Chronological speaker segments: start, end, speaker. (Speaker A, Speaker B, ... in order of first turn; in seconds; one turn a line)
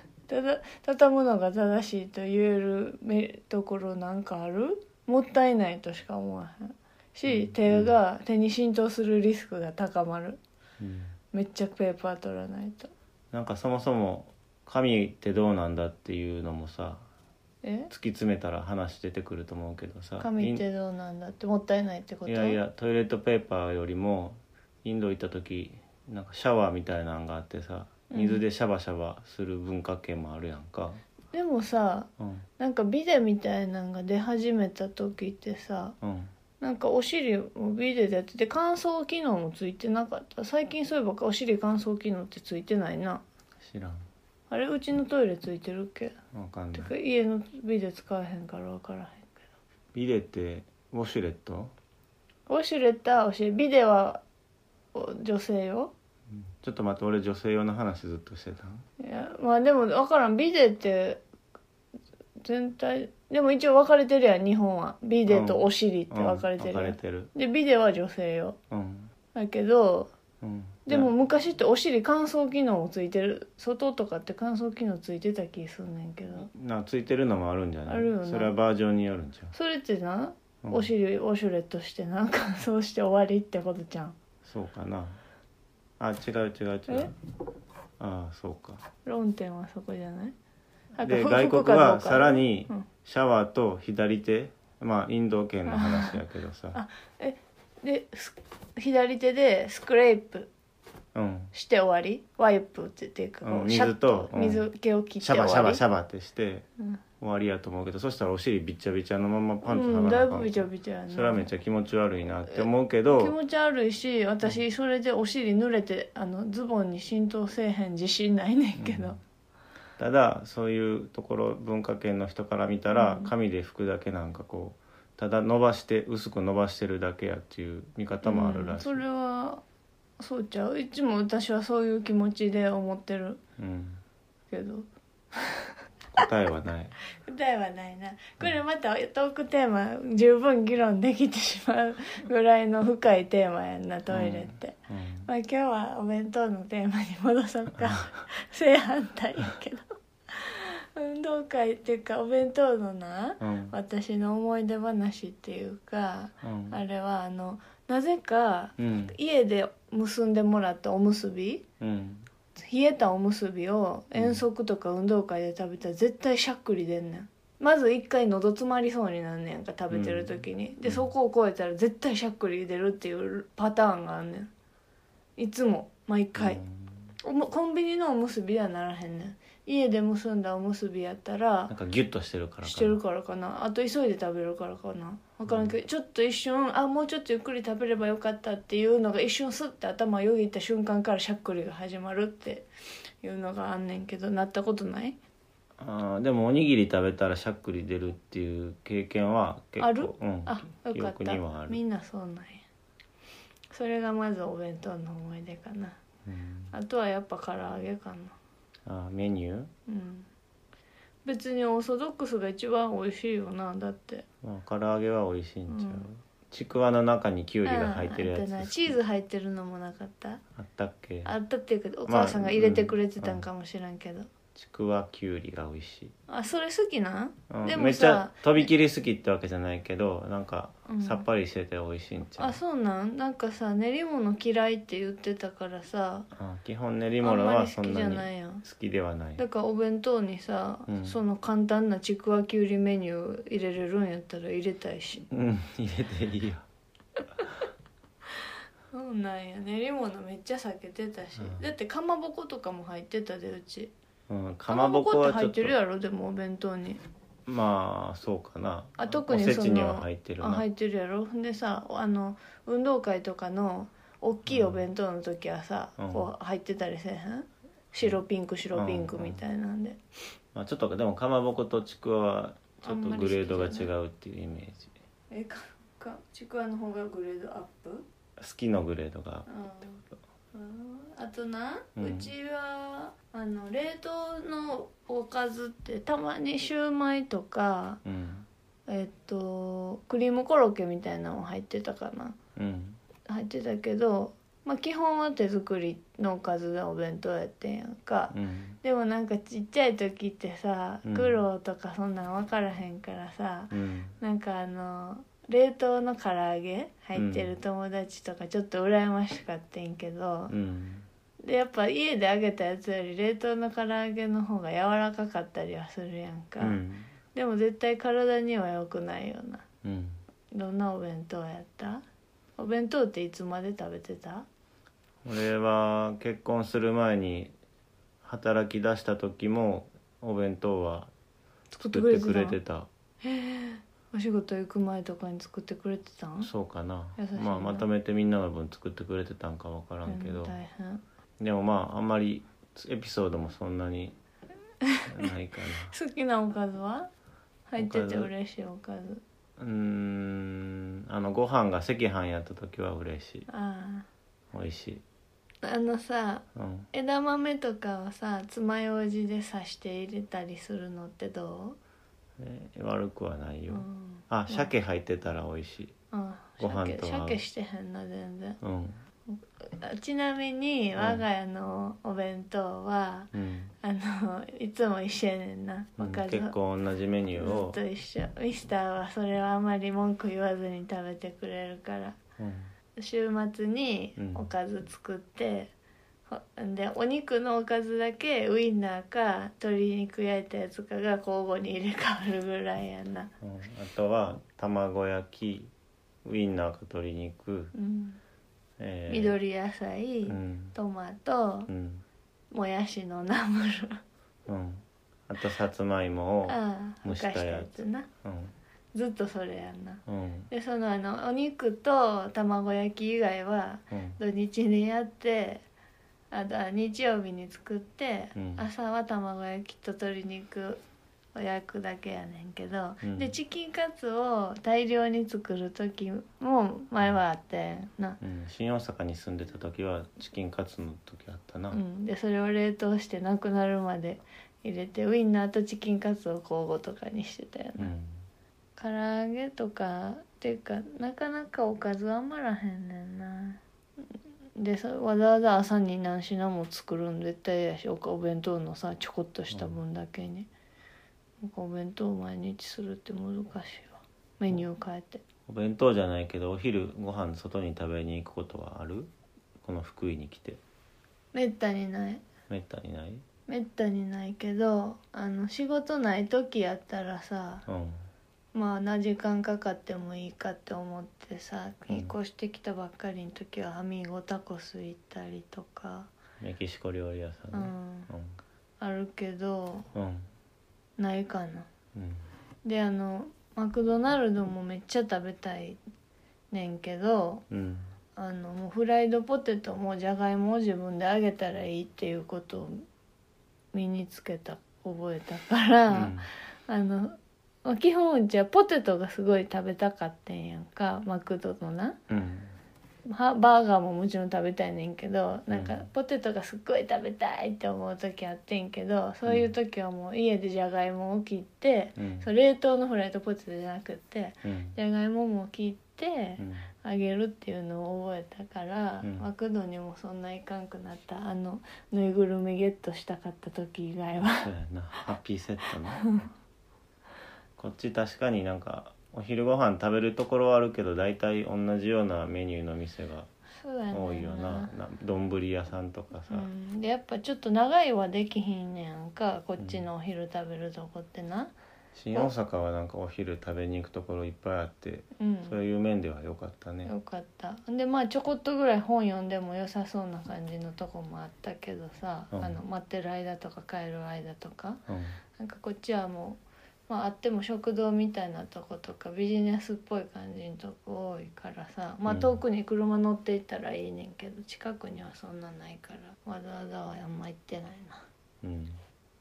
Speaker A: 0.3-10.4
Speaker B: 7.3-7.9
Speaker B: 10.8-11.1
Speaker A: 11.3-12.9
Speaker B: 13.3-17.0
Speaker A: 17.6-17.9
Speaker B: 17.9-20.6
Speaker A: 20.2-22.6
Speaker B: 22.2-31.0
Speaker A: 28.1-28.4
Speaker A: 31.3-36.0
Speaker B: 32.2-32.5
Speaker B: 36.0-36.3
Speaker A: 36.6-43.2
Speaker B: 43.6-44.1
Speaker A: 44.5-46.1
Speaker B: 46.3-46.9
Speaker A: 46.7-49.4
Speaker B: 49.9-51.7
Speaker A: 52.5-54.2
Speaker A: 54.9-55.9
Speaker B: 56.3-58.8
Speaker A: 59.0-61.2
Speaker A: 62.4-68.6
Speaker B: 65.3-67.3
Speaker B: 68.7-69.1
Speaker A: 69.3-70.1
Speaker B: 70.4-71.1
Speaker A: 70.9-76.5
Speaker B: 76.4-79.5
Speaker A: 77.9-78.5
Speaker A: 79.5-84.2
Speaker B: 80.6-80.9
Speaker B: 84.4-85.2
Speaker B: 86.0-87.1
Speaker B: 88.0-88.8
Speaker A: 89.0-90.3
Speaker A: 91.0-92.9
Speaker B: 91.0-96.8
Speaker A: 95.7-96.2
Speaker A: 96.7-100.5
Speaker B: 101.1-101.5
Speaker A: 101.5-105.8
Speaker B: 103.4-104.7
Speaker B: 105.2-106.7
Speaker B: 107.2-113.3
Speaker A: 109.7-111.5
Speaker A: 112.5-119.2
Speaker B: 118.8-119.2
Speaker B: 120.0-129.0
Speaker A: 122.9-123.3
Speaker A: 128.2-129.6
Speaker A: 130.2-133.4
Speaker B: 133.6-134.0
Speaker A: 134.5-135.7
Speaker B: 136.1-136.9
Speaker A: 137.3-161.7
Speaker B: 144.1-145.3
Speaker B: 153.4-153.8
Speaker B: 156.4-156.8
Speaker B: 158.8-159.1
Speaker B: 161.8-162.3
Speaker A: 162.6-174.5
Speaker B: 164.2-164.4
Speaker B: 169.9-171.1
Speaker A: 175.4-176.6
Speaker B: 176.4-177.0
Speaker A: 177.2-181.7
Speaker B: 181.7-183.0
Speaker A: 182.6-192.7
Speaker B: 185.5-185.7
Speaker A: 193.2-195.2
Speaker B: 195.8-201.8
Speaker A: 199.8-202.6
Speaker A: 203.7-206.0
Speaker B: 206.2-206.7
Speaker A: 206.7-208.4
Speaker B: 208.9-209.7
Speaker A: 209.9-210.3
Speaker A: 211.2-214.2
Speaker B: 214.4-219.0
Speaker A: 215.7-216.1
Speaker A: 217.6-220.4
Speaker B: 220.6-221.3
Speaker A: 221.2-224.3
Speaker B: 222.1-223.4
Speaker B: 224.6-226.1
Speaker A: 226.3-228.7
Speaker B: 227.5-232.6
Speaker A: 230.9-231.2
Speaker A: 232.4-236.3
Speaker B: 236.3-239.4
Speaker A: 237.2-238.6
Speaker A: 239.4-245.3
Speaker B: 240.9-241.2
Speaker B: 245.3-246.7
Speaker A: 248.9-253.9
Speaker B: 251.4-251.7
Speaker B: 254.3-255.7
Speaker A: 254.7-257.0
Speaker B: 257.4-260.6
Speaker A: 259.0-270.0
Speaker B: 264.5-264.8
Speaker B: 266.0-266.3
Speaker B: 268.7-269.4
Speaker B: 270.5-274.9
Speaker A: 272.8-273.9
Speaker A: 275.3-278.1
Speaker B: 278.4-279.5
Speaker A: 279.5-288.0
Speaker B: 282.0-282.3
Speaker B: 288.1-288.5
Speaker A: 288.9-292.4
Speaker B: 292.6-293.0
Speaker A: 293.2-310.6
Speaker B: 298.3-298.8
Speaker B: 301.1-301.4
Speaker B: 303.7-304.1
Speaker B: 307.2-307.5
Speaker B: 310.5-311.1
Speaker A: 311.4-316.8
Speaker B: 316.6-317.1
Speaker A: 317.3-319.7
Speaker B: 319.8-320.2
Speaker A: 320.5-322.0
Speaker A: 322.6-324.5
Speaker B: 325.2-327.5
Speaker B: 328.2-331.1
Speaker A: 331.7-332.6
Speaker B: 331.8-332.9
Speaker A: 333.2-336.5
Speaker B: 336.4-340.6
Speaker A: 337.2-337.9
Speaker A: 340.1-341.0
Speaker B: 341.4-344.2
Speaker A: 344.8-347.1
Speaker B: 345.1-345.9
Speaker A: 347.7-349.2
Speaker B: 347.8-348.3
Speaker B: 349.6-353.5
Speaker A: 353.5-354.1
Speaker B: 354.5-355.0
Speaker A: 355.6-361.8
Speaker B: 356.6-356.9
Speaker B: 362.4-365.9
Speaker A: 363.7-364.7
Speaker A: 366.1-368.6
Speaker B: 366.6-367.4
Speaker B: 368.6-369.0
Speaker A: 369.3-376.5
Speaker B: 371.0-371.2
Speaker B: 373.3-373.7
Speaker B: 376.0-377.8
Speaker A: 377.4-382.2
Speaker B: 382.4-382.7
Speaker A: 383.0-385.7
Speaker B: 384.2-384.5
Speaker A: 386.3-393.3
Speaker B: 393.4-395.7
Speaker B: 396.2-397.7
Speaker A: 397.7-398.2
Speaker B: 398.8-399.4
Speaker A: 399.1-401.7
Speaker B: 400.3-400.8
Speaker B: 401.7-402.0
Speaker A: 402.5-404.0
Speaker B: 404.5-408.5
Speaker A: 406.5-408.1
Speaker A: 408.9-415.6
Speaker B: 410.1-410.5
Speaker B: 413.9-414.2
Speaker A: 416.3-420.8
Speaker B: 418.3-418.7
Speaker A: 421.3-428.2
Speaker B: 423.0-423.3
Speaker B: 428.2-431.8
Speaker A: 431.7-437.9
Speaker B: 437.8-438.2
Speaker A: 438.8-443.6
Speaker A: 444.6-450.5
Speaker B: 449.5-449.8
Speaker A: 451.4-455.2
Speaker B: 455.5-459.1
Speaker B: 459.6-460.6
Speaker A: 461.3-462.2
Speaker B: 462.5-463.2
Speaker A: 463.5-467.6
Speaker B: 467.7-468.0
Speaker A: 468.5-476.1
Speaker B: 471.9-472.1
Speaker B: 476.4-478.4
Speaker A: 477.5-478.1
Speaker A: 478.8-479.9
Speaker B: 479.9-480.3
Speaker A: 481.0-481.7
Speaker B: 481.9-482.2
Speaker A: 482.6-485.8
Speaker A: 486.5-487.4
Speaker B: 487.5-487.9
Speaker A: 488.2-492.8
Speaker A: 493.7-502.0
Speaker B: 495.9-496.3
Speaker B: 502.1-502.5
Speaker A: 503.1-524.5
Speaker B: 505.5-505.9
Speaker B: 512.0-512.3
Speaker B: 514.4-514.8
Speaker B: 516.4-516.7
Speaker B: 519.0-519.3
Speaker B: 524.2-526.2
Speaker A: 526.0-526.2
Speaker B: 527.6-533.3
Speaker A: 533.6-534.7
Speaker B: 533.9-536.5
Speaker A: 536.3-541.5
Speaker B: 541.9-546.9
Speaker A: 545.2-545.6
Speaker A: 546.9-554.8
Speaker B: 552.3-552.6
Speaker B: 554.9-555.2
Speaker A: 555.4-568.0
Speaker B: 562.1-562.4
Speaker B: 568.4-568.8